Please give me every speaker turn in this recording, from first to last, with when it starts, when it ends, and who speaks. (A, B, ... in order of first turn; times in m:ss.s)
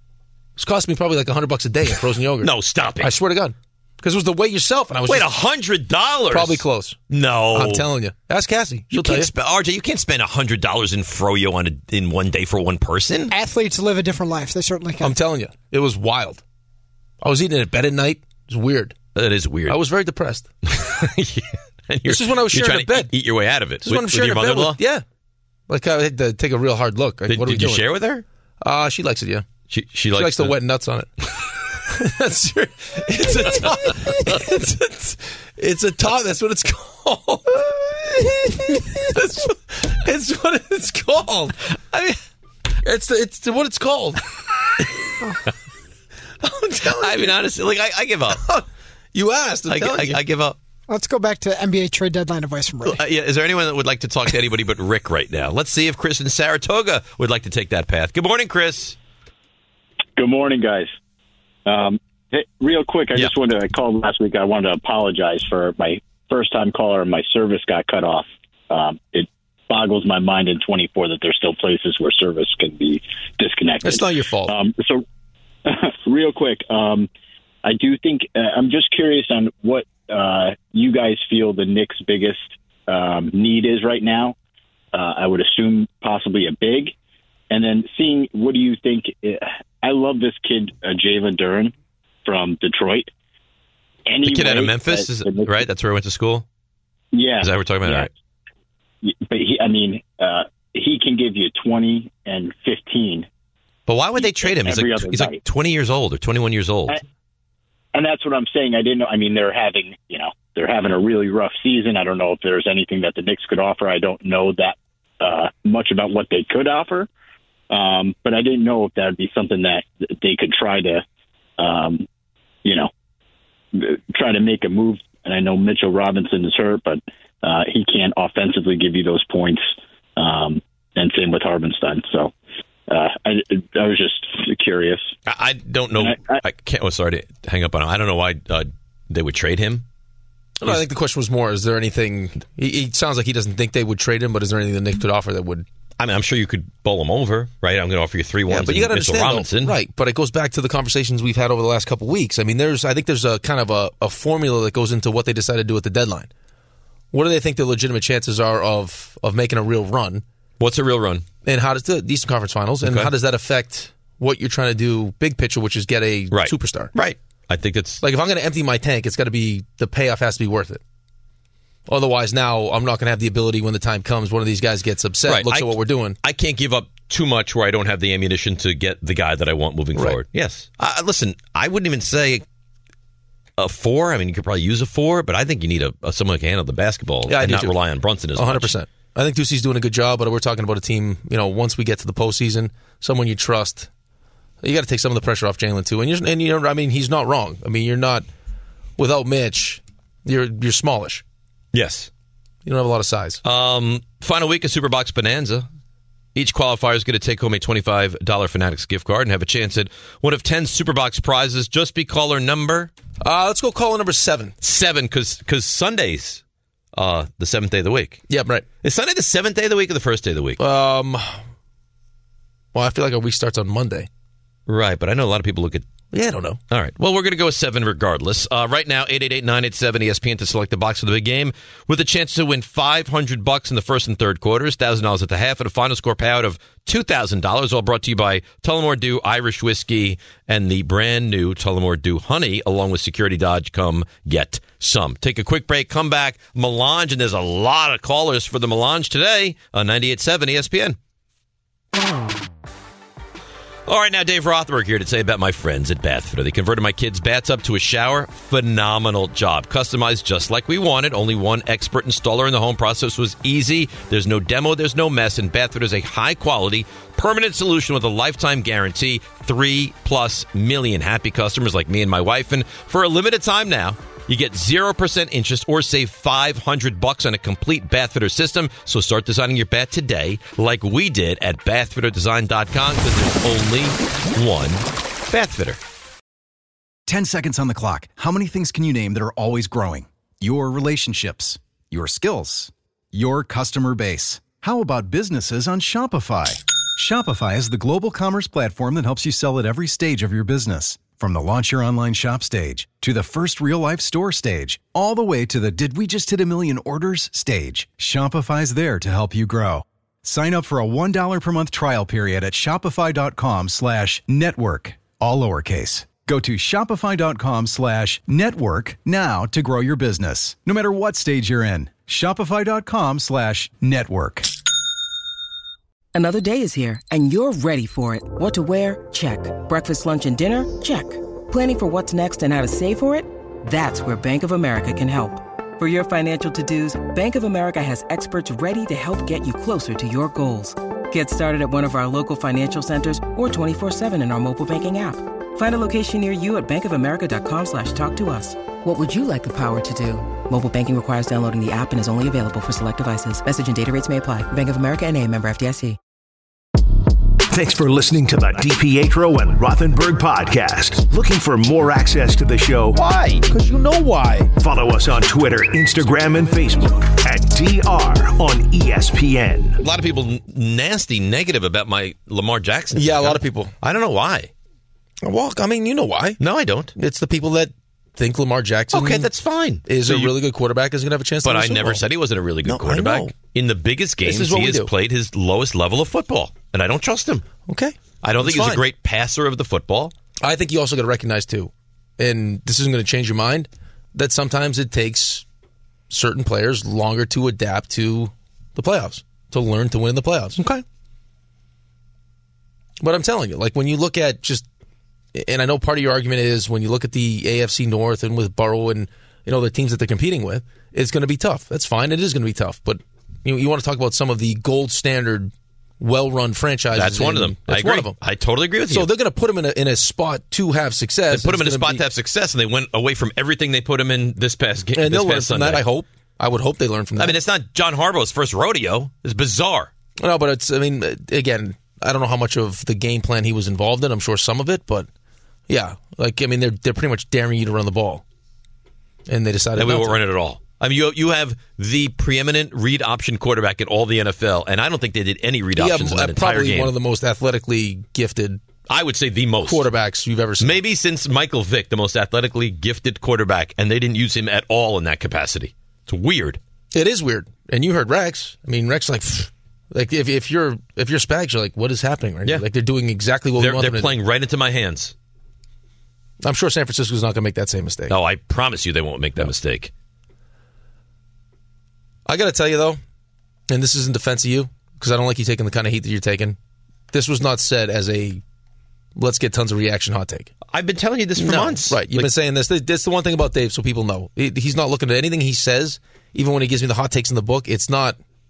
0:00.6-0:05.3 A
0:02.4-0:03.1 B
0:05.1-0:07.8 B
0:06.3-0:07.0 A
0:07.5-0:09.3 A
0:08.9-0:13.3 B
0:13.3-0:15.1 C
0:15.0-0:16.4 A
0:17.2-0:19.0 A
0:19.1-0:19.8 B
0:19.7-0:20.5 A
0:20.6-0:24.8 B
0:22.0-0:23.1 A
0:23.8-0:25.0 A
0:25.7-0:27.8 A
0:27.3-0:28.2 B
0:28.6-0:29.4 A
0:29.7-0:30.6 B
0:30.1-0:42.1 A
0:33.2-0:34.5 B
0:42.8-0:44.2 A
0:46.4-0:47.4 A
0:46.8-0:48.4 B
0:48.3-0:50.2 A
0:49.7-0:50.6 B
0:50.9-0:53.0 C
0:52.8-0:59.0 B
1:00.2-1:00.9 D
1:01.6-1:15.0 D
1:13.8-1:14.5 A
1:15.6-1:17.1 D
1:17.6-1:24.3 D
1:24.9-1:26.9 D
1:27.5-1:31.7 D
1:32.2-1:33.1 D
1:34.1-1:35.7 D
1:34.2-1:36.4 B
1:37.1-1:38.1 D
1:37.4-1:38.1 B
1:39.0-1:43.3 D
1:43.9-1:47.0 B
1:44.2-1:45.4 D
1:47.9-1:57.1 D
1:57.7-2:01.0 D
2:01.6-2:02.1 D
2:02.6-2:02.9 D
2:03.7-2:12.3 D
2:12.9-2:15.1 D
2:15.3-2:19.8 B
2:16.0-2:16.4 D
2:20.6-2:25.6 A
2:26.0-2:29.8 B
2:28.5-2:36.3 A
2:37.1-2:40.2 A
2:40.6-2:41.2 B
2:41.4-2:46.9 A
2:42.8-2:43.1 B
2:46.3-2:48.0 B
2:48.0-2:50.8 A
2:51.9-2:56.2 A
2:55.3-3:02.4 B
3:03.6-3:08.7 B
3:07.3-3:07.7 A
3:08.4-3:13.9 A
3:14.6-3:18.3 A
3:19.0-3:21.2 A
3:21.7-3:22.1 B
3:22.6-3:23.4 A
3:23.4-3:25.7 B
3:26.3-3:32.9 B
3:33.2-3:34.5 A
3:34.6-3:36.4 B
3:36.9-3:38.2 B
3:38.3-3:38.6 A
3:38.8-3:40.6 B
3:40.6-3:41.4 A
3:42.7-3:44.1 A
3:44.7-3:45.9 B
3:46.1-3:46.6 A
3:46.7-4:11.0 B
4:13.9-4:45.8 B
4:47.1-5:24.5 E
5:26.1-5:56.0 F
5:57.5-6:03.0 G
6:03.0-6:03.4 B
6:03.4-6:04.5 A
6:04.6-6:09.8 G
6:09.8-6:14.5 B
6:12.9-6:13.7 A
6:15.2-6:16.4 A
6:16.4-6:16.9 B
6:17.0-6:19.3 A
6:18.9-6:20.3 B
6:19.8-6:22.0 A
6:21.4-6:27.5 B
6:22.6-6:23.3 A
6:24.2-6:24.9 A
6:27.7-6:28.8 A
6:28.2-6:30.1 B
6:30.4-6:35.4 A
6:36.1-6:40.6 A
6:43.0-6:44.6 A
6:45.3-6:58.1 A
6:56.9-6:59.1 B
6:58.9-7:02.0 A
7:01.3-7:05.8 B
7:04.9-7:07.4 A
7:07.2-7:09.9 B
7:10.2-7:15.1 A
7:15.7-7:18.2 A
7:19.3-7:20.2 A
7:19.8-7:26.9 B
7:25.8-7:28.6 A
7:28.9-7:29.8 B
7:29.6-7:30.8 A
7:30.6-7:36.6 B
7:36.9-7:44.2 A
7:43.6-7:45.1 B
7:46.4-7:48.2 A
7:48.1-7:49.9 B
7:52.2-7:53.0 A
7:53.7-7:56.6 A
7:57.1-7:58.4 A
7:59.2-8:00.5 A
8:00.7-8:02.3 B
8:01.4-8:08.2 A